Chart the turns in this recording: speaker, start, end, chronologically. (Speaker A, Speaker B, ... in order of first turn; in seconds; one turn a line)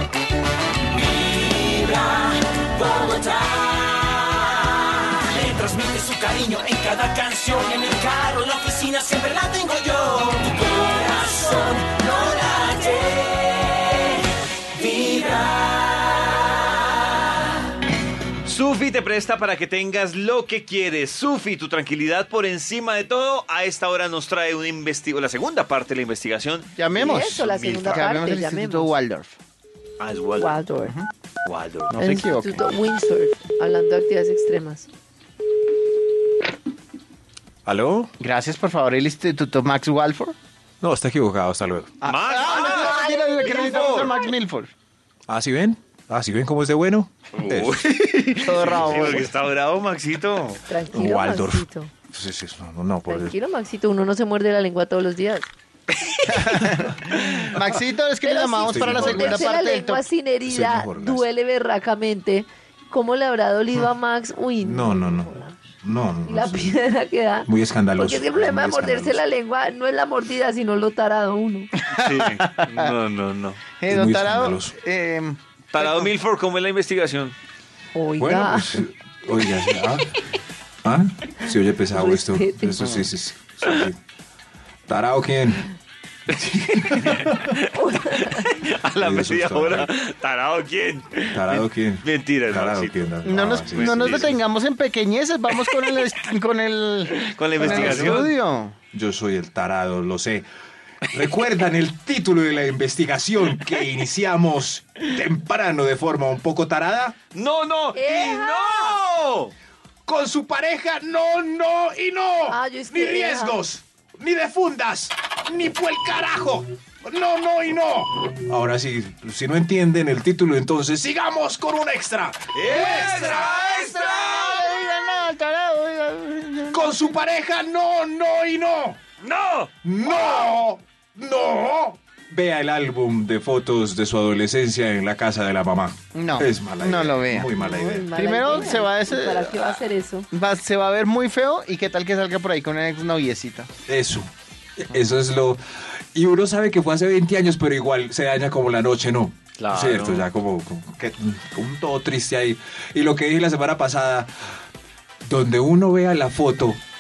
Speaker A: 0.9-14.2
Speaker A: 14.7-16.7
Speaker B: 18.4-28.1
Speaker C: 26.8-27.4
Speaker D: 27.0-29.0
Speaker C: 27.9-29.3
Speaker B: 30.0-30.6
Speaker D: 30.4-30.9
Speaker B: 31.4-32.2
Speaker D: 32.0-34.9
Speaker C: 32.0-32.6
Speaker E: 37.6-38.1
Speaker C: 38.2-40.3
Speaker E: 40.8-42.0
Speaker C: 42.0-44.7
Speaker B: 42.0-44.1
Speaker D: 42.5-44.3
Speaker E: 45.3-48.0
Speaker B: 47.3-50.6
Speaker C: 48.0-49.3
Speaker E: 48.6-49.2
Speaker D: 50.7-51.9
Speaker E: 50.9-53.4
Speaker D: 53.1-55.5
Speaker C: 56.4-60.0
Speaker D: 58.2-65.6
Speaker E: 58.6-59.5
Speaker E: 60.5-61.3
Speaker E: 64.6-66.8
Speaker D: 66.2-71.7
Speaker E: 67.4-69.2
Speaker B: 71.9-73.6
Speaker C: 73.8-76.1
Speaker E: 73.8-74.8
Speaker B: 75.7-77.3
Speaker D: 77.9-78.8
Speaker E: 78.2-80.1
Speaker E: 80.8-84.0
Speaker D: 81.9-83.0
Speaker E: 84.9-85.7
Speaker E: 86.4-87.4
Speaker B: 86.6-93.0
Speaker D: 87.7-88.4
Speaker E: 89.0-89.9
Speaker E: 91.3-94.3
Speaker C: 93.2-98.8
Speaker B: 93.6-94.3
Speaker B: 97.3-98.3
Speaker E: 97.6-98.3
Speaker E: 98.9-100.5
Speaker E: 101.1-107.2
Speaker B: 107.3-109.5
Speaker D: 107.9-109.0
Speaker E: 110.0-123.2
Speaker D: 112.5-113.6
Speaker B: 122.5-124.7
Speaker C: 122.6-127.2
Speaker E: 125.6-129.0
Speaker B: 129.2-129.7
Speaker E: 129.8-138.2
Speaker C: 136.1-137.5
Speaker D: 137.6-140.3
Speaker C: 138.1-143.7
Speaker E: 143.8-145.6
Speaker E: 146.1-154.3
Speaker B: 149.6-150.3
Speaker E: 155.2-156.8